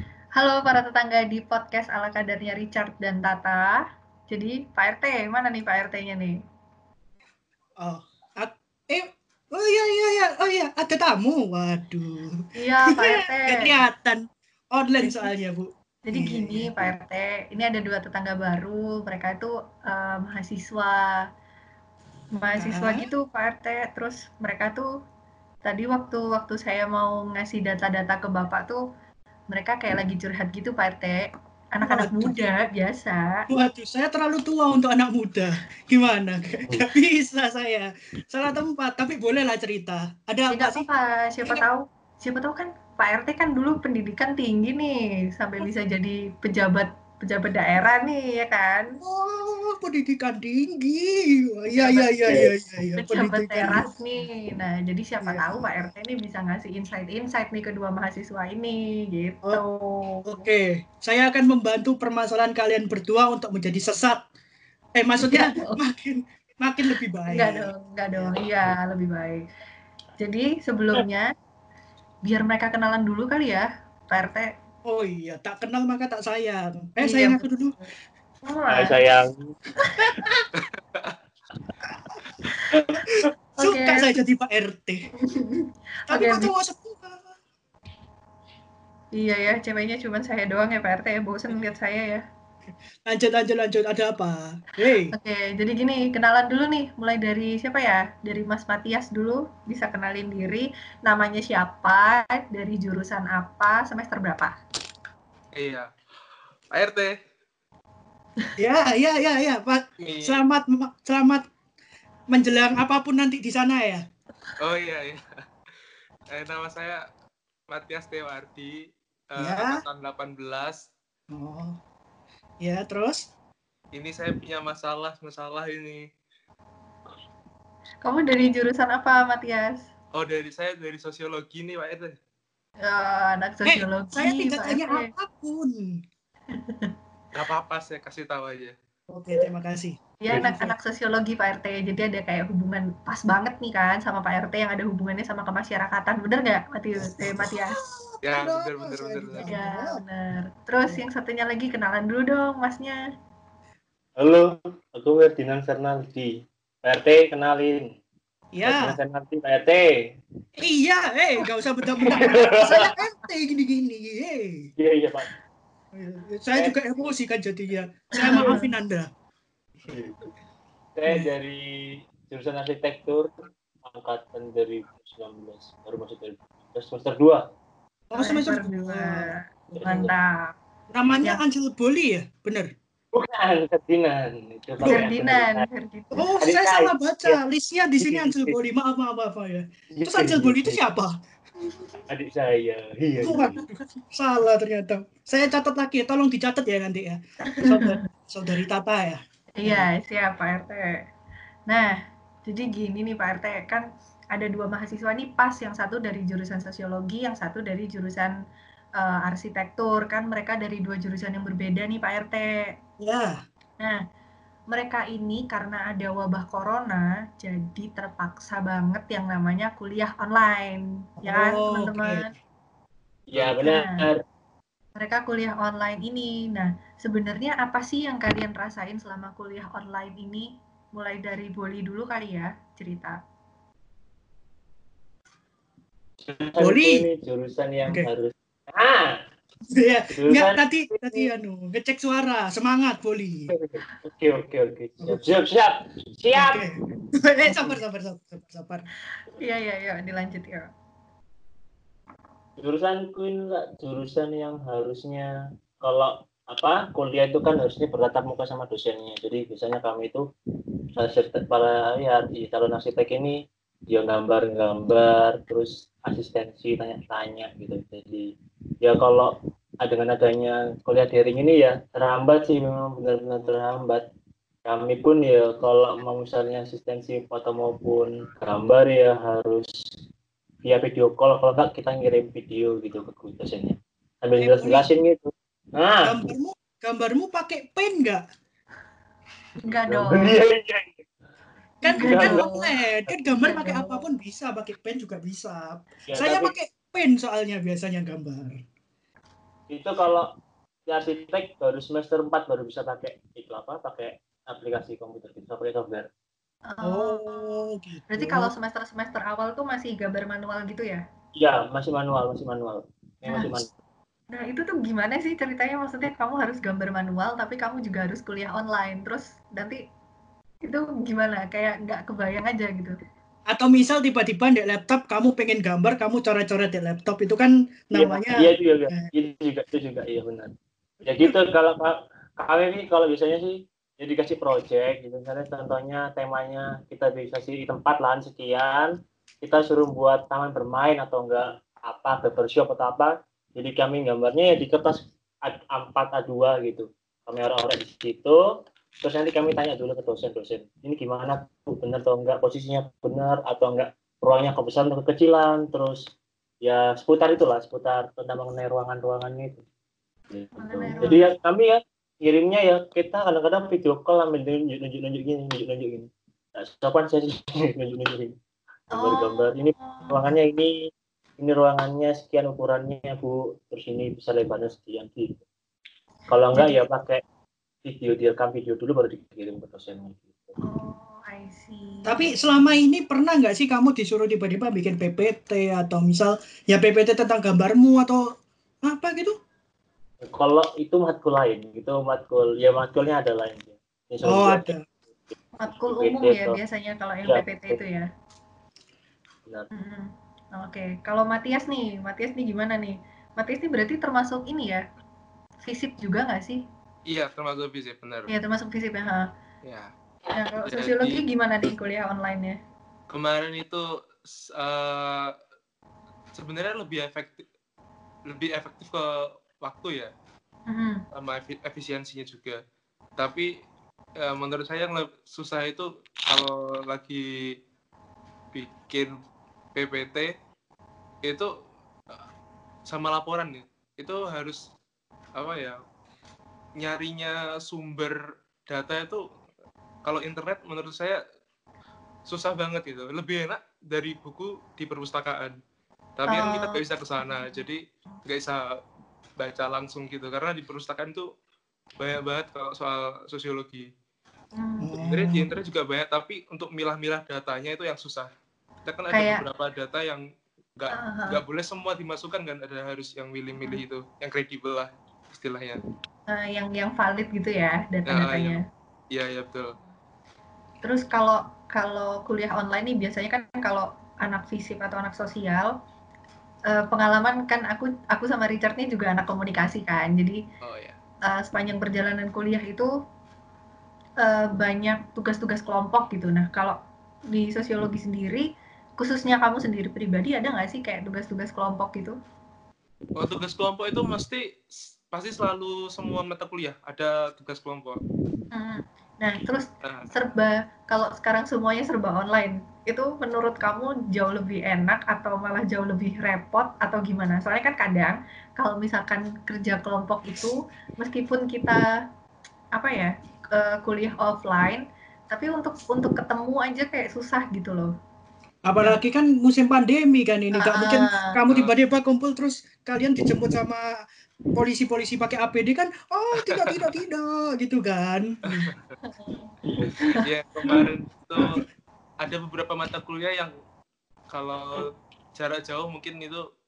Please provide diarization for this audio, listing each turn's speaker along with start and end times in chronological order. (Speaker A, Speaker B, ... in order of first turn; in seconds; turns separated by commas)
Speaker A: 0.3-6.3, Speaker B: 7.8-16.7, Speaker A: 12.6-13.7, Speaker A: 15.0-15.3, Speaker A: 16.1-21.1, Speaker A: 22.4-24.9, Speaker B: 22.6-23.1, Speaker A: 25.6-28.8, Speaker A: 29.5-31.2, Speaker A: 31.8-33.4, Speaker B: 31.8-32.4, Speaker B: 33.5-40.9, Speaker A: 40.5-48.9, Speaker B: 49.0-53.9, Speaker A: 51.7-52.4, Speaker A: 53.0-60.5, Speaker B: 55.2-55.8, Speaker B: 60.3-64.3, Speaker B: 65.0-67.7, Speaker A: 65.3-65.7, Speaker A: 67.3-69.4, Speaker A: 70.2-71.3, Speaker A: 72.3-74.5, Speaker B: 74.9-77.8, Speaker A: 77.0-77.8, Speaker A: 78.5-79.0, Speaker C: 78.7-79.5, Speaker A: 82.5-83.0, Speaker A: 83.6-84.1, Speaker B: 83.6-85.1, Speaker A: 85.2-86.5, Speaker B: 86.1-87.4, Speaker A: 89.2-92.2, Speaker B: 93.1-95.1, Speaker A: 95.1-104.5, Speaker D: 105.5-105.9, Speaker D: 106.7-107.2, Speaker B: 108.6-111.5, Speaker D: 110.0-110.4, Speaker B: 112.3-114.0, Speaker D: 114.6-115.2, Speaker D: 116.3-117.0, Speaker D: 117.7-120.9, Speaker B: 119.4-119.8, Speaker B: 121.3-121.8, Speaker B: 122.6-123.3, Speaker D: 123.9-126.1, Speaker A: 128.0-129.9, Speaker D: 130.1-132.2, Speaker A: 132.8-135.1, Speaker B: 133.7-136.0, Speaker A: 136.5-136.9, Speaker D: 137.3-138.8, Speaker B: 139.1-140.7, Speaker A: 140.2-147.8, Speaker B: 147.1-150.0, Speaker D: 148.2-149.5, Speaker A: 149.4-153.0, Speaker C: 154.2-157.9, Speaker B: 158.5-159.0, Speaker C: 158.7-160.2, Speaker B: 160.6-164.7, Speaker C: 162.0-162.9, Speaker C: 164.8-165.3, Speaker B: 165.9-169.1, Speaker A: 168.2-168.7, Speaker C: 169.9-170.2, Speaker C: 171.0-173.3, Speaker C: 173.9-177.4, Speaker B: 178.1-179.3, Speaker A: 178.2-180.5, Speaker C: 179.7-180.1, Speaker B: 179.9-180.1, Speaker B: 180.9-182.7, Speaker C: 183.1-185.7, Speaker B: 184.8-185.1, Speaker A: 184.8-186.3, Speaker B: 186.1-191.1, Speaker C: 186.4-187.4, Speaker C: 188.0-188.6, Speaker C: 189.9-190.8, Speaker C: 192.1-193.6, Speaker B: 193.2-199.8, Speaker A: 197.5-198.0, Speaker A: 199.6-201.0, Speaker A: 201.7-201.9, Speaker A: 202.5-208.3, Speaker A: 209.0-212.7, Speaker B: 213.0-213.4, Speaker A: 214.7-222.3, Speaker B: 221.2-222.3, Speaker C: 223.3-224.2, Speaker A: 223.6-224.1, Speaker A: 225.0-233.2, Speaker C: 236.2-239.2, Speaker B: 236.6-237.1, Speaker B: 239.7-243.5, Speaker C: 240.1-241.3, Speaker C: 243.5-246.6, Speaker B: 245.0-245.3, Speaker B: 246.3-248.8, Speaker C: 247.5-247.8, Speaker A: 249.4-250.7, Speaker C: 252.6-255.3, Speaker C: 255.8-260.2, Speaker C: 260.9-263.4, Speaker C: 263.9-268.3, Speaker C: 268.8-274.1, Speaker C: 274.6-279.7, Speaker C: 280.6-286.1, Speaker B: 284.4-284.9, Speaker B: 286.0-288.2, Speaker A: 289.6-290.4, Speaker C: 289.9-291.0, Speaker B: 291.8-298.6, Speaker A: 291.9-292.7, Speaker C: 292.0-292.5, Speaker A: 293.4-294.1, Speaker C: 296.1-296.5, Speaker C: 299.7-300.3, Speaker C: 300.9-306.1, Speaker A: 306.7-307.6, Speaker B: 306.9-308.5, Speaker A: 308.1-311.0, Speaker C: 311.4-313.7, Speaker A: 313.3-313.6, Speaker A: 314.3-319.8, Speaker A: 320.6-323.0, Speaker B: 323.5-329.1, Speaker C: 327.9-330.5, Speaker C: 331.0-338.9, Speaker C: 339.4-348.4, Speaker C: 349.0-356.0, Speaker C: 356.6-359.6, Speaker C: 360.3-368.3, Speaker A: 360.6-361.3, Speaker A: 368.9-370.2, Speaker C: 369.0-375.4, Speaker C: 376.3-377.2, Speaker C: 377.9-380.6, Speaker A: 380.6-382.8, Speaker B: 382.1-388.3, Speaker B: 388.9-389.4, Speaker C: 390.2-394.6, Speaker B: 394.2-394.9, Speaker C: 395.3-396.6, Speaker A: 395.6-398.1, Speaker C: 397.3-397.8, Speaker A: 399.8-404.8, Speaker A: 405.6-406.6, Speaker D: 407.1-408.3, Speaker A: 408.3-409.3, Speaker D: 409.6-409.9, Speaker A: 410.3-412.6, Speaker D: 410.7-411.2, Speaker D: 413.1-415.3, Speaker D: 416.4-417.4, Speaker D: 418.3-420.1, Speaker A: 420.7-421.0, Speaker D: 421.1-422.6, Speaker D: 423.2-423.5, Speaker D: 424.2-427.2, Speaker D: 428.5-429.1, Speaker D: 429.8-430.3, Speaker D: 431.2-431.5, Speaker D: 432.9-434.6, Speaker D: 435.4-435.8, Speaker D: 436.8-439.2, Speaker D: 440.1-441.2, Speaker D: 442.3-445.6, Speaker D: 446.2-448.7, Speaker A: 446.3-447.6, Speaker D: 449.4-451.3, Speaker D: 452.0-453.9, Speaker A: 454.6-455.0, Speaker B: 454.8-455.5, Speaker D: 455.0-458.3, Speaker D: 458.9-460.2, Speaker A: 459.1-459.4, Speaker D: 460.8-465.8, Speaker A: 460.9-461.4, Speaker A: 466.3-468.6, Speaker D: 468.1-468.6, Speaker D: 469.1-469.7, Speaker A: 470.8-475.7, Speaker A: 476.7-480.4, Speaker D: 480.6-481.0, Speaker A: 481.3-482.9, Speaker A: 484.2-486.8, Speaker A: 487.3-488.5, Speaker A: 489.0-492.2, Speaker D: 493.2-494.4, Speaker D: 495.1-498.0, Speaker A: 498.5-511.8, Speaker D: 499.8-500.1, Speaker A: 512.8-517.9, Speaker B: 518.7-523.9, Speaker A: 520.5-521.3, Speaker B: 524.5-528.7, Speaker D: 526.5-526.9, Speaker A: 529.0-529.5, Speaker C: 529.8-530.1, Speaker D: 530.2-531.6, Speaker D: 532.2-533.5, Speaker D: 534.3-536.4